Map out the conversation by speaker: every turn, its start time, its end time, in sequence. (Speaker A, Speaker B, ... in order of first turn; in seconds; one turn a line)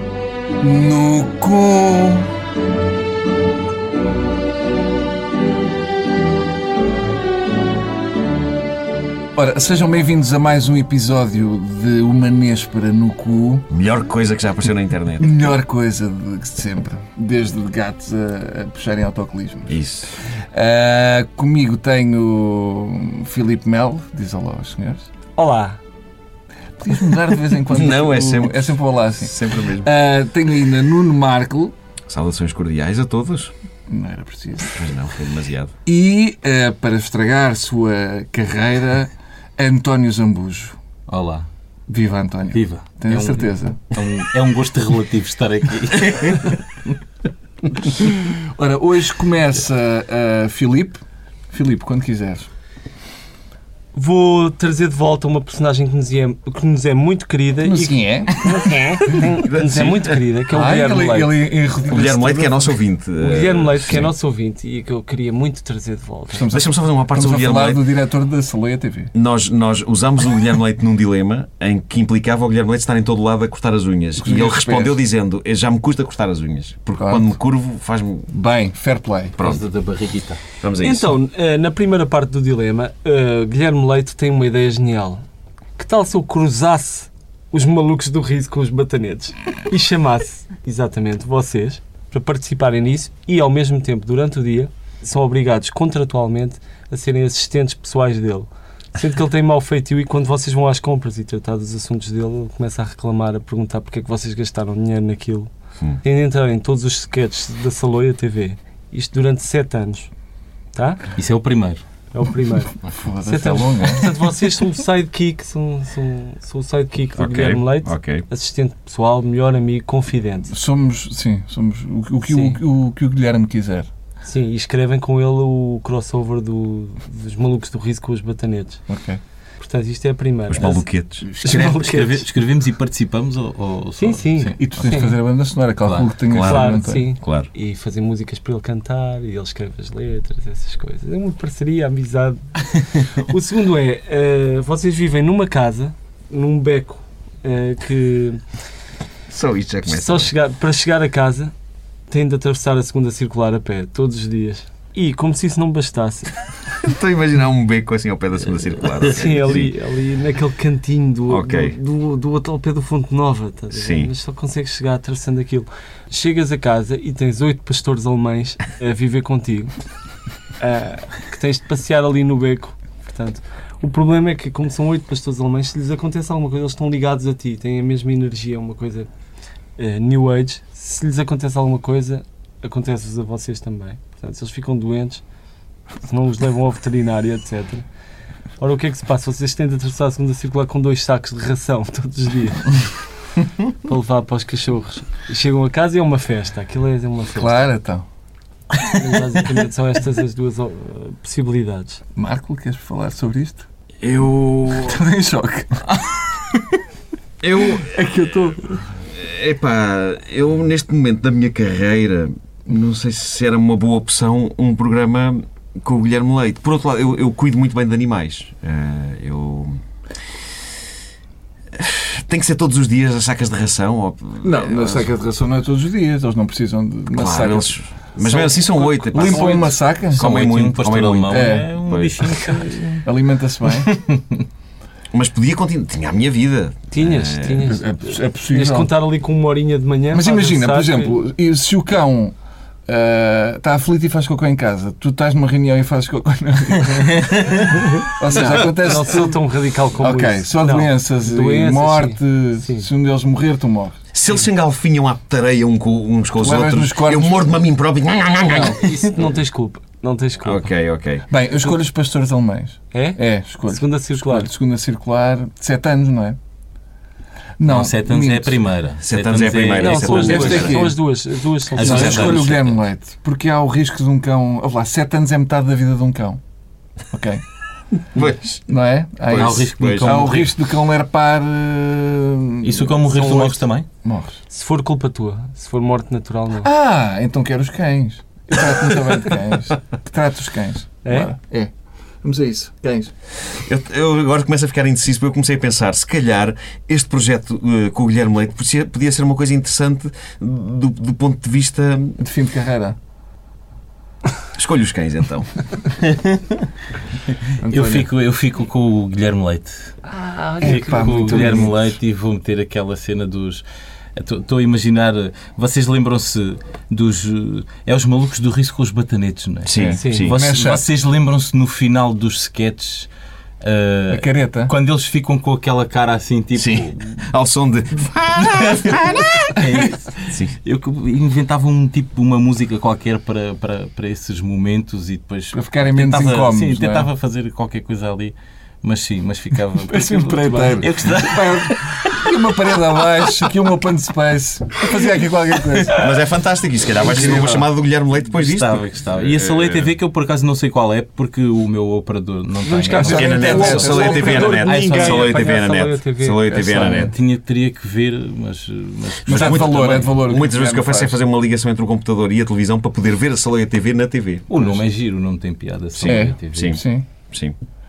Speaker A: 0.6-2.3
Speaker A: 9.3-13.7
Speaker B: 13.7-15.4
Speaker A: 15.2-19.8
Speaker B: 19.7-20.1
Speaker A: 20.5-25.1
Speaker C: 25.4-25.8
Speaker A: 26.8-31.7
Speaker B: 27.7-29.9
Speaker B: 32.1-33.5
Speaker A: 33.9-34.8
Speaker B: 34.8-35.7
Speaker A: 35.9-40.8
Speaker D: 41.1-41.5
Speaker A: 41.9-44.0
Speaker D: 42.5-46.7
Speaker A: 48.5-52.5
Speaker C: 53.9-61.5
Speaker A: 57.6-59.2
Speaker B: 59.5-60.1
Speaker A: 60.5-62.7
Speaker B: 61.9-64.1
Speaker C: 63.2-66.5
Speaker A: 66.3-69.1
Speaker B: 66.5-67.8
Speaker B: 69.1-78.3
Speaker A: 74.2-75.0
Speaker A: 77.0-77.4
Speaker A: 78.3-79.4
Speaker B: 79.4-79.7
Speaker D: 79.4-80.4
Speaker B: 80.6-81.2
Speaker C: 80.8-85.2
Speaker C: 85.8-105.5
Speaker C: 106.0-110.1
Speaker C: 110.7-111.0
Speaker D: 111.2-111.8
Speaker C: 112.1-112.7
Speaker A: 112.9-114.2
Speaker C: 113.2-120.5
Speaker B: 117.2-118.2
Speaker A: 120.5-123.9
Speaker C: 122.3-122.6
Speaker C: 124.2-128.8
Speaker A: 128.9-129.2
Speaker C: 129.6-130.9
Speaker B: 130.5-131.8
Speaker C: 131.4-132.3
Speaker D: 131.4-134.6
Speaker C: 134.0-135.2
Speaker A: 134.6-137.0
Speaker D: 135.8-136.1
Speaker B: 136.3-137.5
Speaker C: 136.4-148.4
Speaker B: 149.3-150.3
Speaker C: 149.9-151.5
Speaker C: 152.1-156.4
Speaker B: 156.8-159.7
Speaker D: 158.8-159.1
Speaker C: 159.0-169.7
Speaker B: 161.3-161.8
Speaker B: 163.7-164.1
Speaker C: 170.6-179.1
Speaker C: 179.8-185.2
Speaker C: 186.0-187.8
Speaker C: 188.6-192.8
Speaker C: 193.8-197.7
Speaker A: 197.3-198.1
Speaker C: 198.9-202.0
Speaker A: 202.2-203.7
Speaker B: 204.0-205.0
Speaker A: 204.8-205.8
Speaker B: 207.4-208.0
Speaker A: 207.6-208.8
Speaker B: 209.1-219.8
Speaker B: 221.8-225.1
Speaker A: 224.4-230.2
Speaker B: 227.1-232.6
Speaker C: 229.2-229.7
Speaker D: 230.0-233.1
Speaker A: 231.3-231.7
Speaker A: 233.0-233.9
Speaker D: 233.9-234.4
Speaker B: 235.1-237.7
Speaker C: 236.9-241.1
Speaker A: 237.7-238.9
Speaker A: 240.1-242.4
Speaker A: 242.9-247.4
Speaker D: 247.5-247.8
Speaker A: 248.0-249.4
Speaker C: 248.3-252.9
Speaker A: 250.0-254.0
Speaker B: 254.1-259.0
Speaker A: 256.4-257.6
Speaker A: 258.4-258.8
Speaker C: 258.5-260.7
Speaker B: 260.4-261.2
Speaker A: 261.3-266.4
Speaker C: 262.9-264.5
Speaker A: 267.6-268.6
Speaker D: 267.7-270.8
Speaker B: 269.0-270.8
Speaker C: 269.8-272.5
Speaker A: 270.1-271.0
Speaker D: 271.8-272.8
Speaker A: 271.8-276.4
Speaker B: 271.9-272.4
Speaker A: 277.1-277.4
Speaker B: 278.1-278.6
Speaker A: 278.7-283.1
Speaker B: 279.3-280.3
Speaker D: 279.4-280.6
Speaker D: 282.6-283.9
Speaker C: 283.1-283.7
Speaker A: 284.0-284.4
Speaker C: 284.5-286.7
Speaker A: 286.6-291.7
Speaker C: 291.0-291.3
Speaker A: 292.2-293.1
Speaker B: 293.5-302.2
Speaker A: 302.2-303.0
Speaker B: 304.6-305.5
Speaker D: 306.1-306.6
Speaker A: 307.6-308.1
Speaker D: 307.6-309.9
Speaker C: 310.1-311.7
Speaker A: 310.5-311.9
Speaker D: 310.6-313.6
Speaker D: 314.2-323.1
Speaker B: 319.6-320.4
Speaker C: 320.0-320.3
Speaker A: 320.2-320.9
Speaker D: 323.6-327.2
Speaker A: 324.1-324.8
Speaker B: 326.6-329.6
Speaker D: 328.4-343.3
Speaker A: 335.5-337.1
Speaker A: 339.9-346.1
Speaker C: 340.3-340.8
Speaker B: 345.9-349.9
Speaker D: 346.9-355.6
Speaker A: 347.0-347.6
Speaker C: 352.6-356.5
Speaker A: 353.0-354.6
Speaker B: 353.1-357.1
Speaker A: 356.5-357.1
Speaker D: 356.9-360.2
Speaker B: 359.2-364.4
Speaker A: 359.3-361.2
Speaker D: 364.5-366.8
Speaker B: 365.9-367.6
Speaker A: 366.1-367.1